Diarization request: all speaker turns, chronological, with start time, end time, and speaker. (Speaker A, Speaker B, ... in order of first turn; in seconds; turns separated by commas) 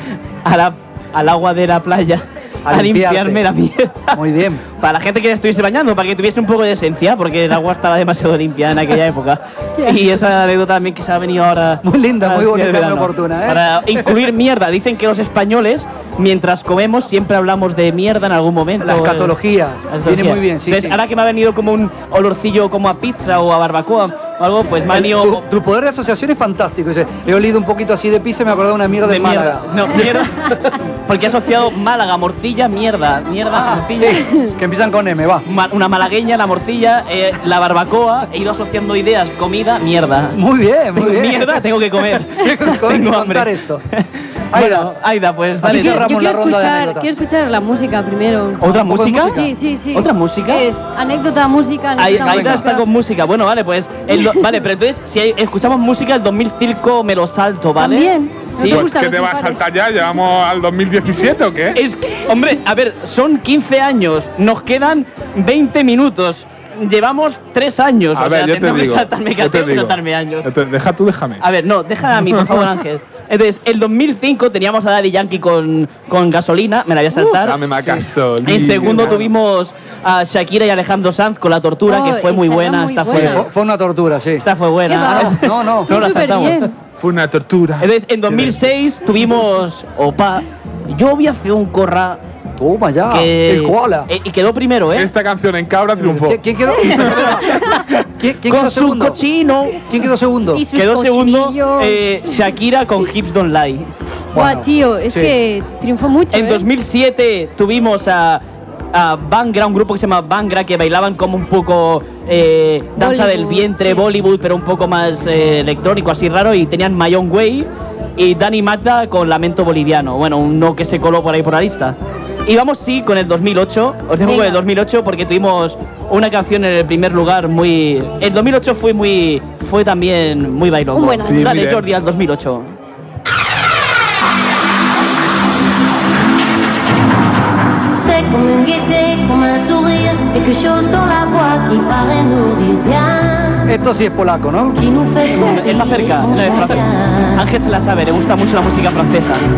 Speaker A: 0.4-4.2, Speaker B: 2.6-3.4, Speaker B: 4.1-4.6, Speaker A: 4.8-19.3, Speaker C: 9.8-10.1, Speaker B: 11.8-14.2, Speaker B: 18.8-21.0, Speaker A: 19.9-25.4, Speaker B: 24.9-30.8, Speaker A: 29.1-34.3, Speaker B: 33.5-35.5, Speaker A: 35.5-40.4, Speaker B: 40.3-41.6, Speaker A: 40.9-46.0, Speaker B: 42.2-43.8, Speaker B: 44.5-44.9, Speaker B: 45.6-47.1, Speaker C: 45.6-48.6, Speaker A: 48.6-50.6, Speaker B: 48.6-49.5, Speaker C: 49.3-52.9, Speaker A: 52.0-58.9, Speaker B: 52.2-52.7, Speaker C: 54.1-54.5, Speaker C: 57.8-59.6, Speaker D: 58.6-61.8, Speaker A: 61.7-70.5, Speaker D: 68.1-71.4, Speaker A: 71.4-77.6, Speaker D: 72.3-72.6, Speaker D: 77.3-79.3, Speaker A: 78.4-83.5, Speaker B: 78.7-79.2, Speaker C: 81.9-83.4, Speaker B: 83.1-86.0, Speaker A: 84.4-86.7, Speaker C: 84.9-86.7, Speaker D: 87.0-88.5, Speaker A: 87.8-92.2, Speaker B: 92.6-94.1, Speaker A: 93.1-95.1, Speaker D: 94.9-96.4, Speaker B: 96.0-99.2, Speaker A: 96.9-99.8, Speaker B: 99.8-100.6, Speaker C: 100.5-102.0, Speaker A: 100.7-103.9, Speaker B: 104.3-105.3, Speaker C: 104.3-106.7, Speaker A: 106.3-108.4, Speaker A: 108.9-132.7, Speaker C: 113.0-114.0, Speaker C: 124.2-124.6, Speaker C: 130.9-131.5, Speaker D: 131.2-132.0, Speaker E: 137.9-143.7, Speaker B: 143.7-144.8, Speaker E: 144.7-147.5, Speaker A: 145.3-149.4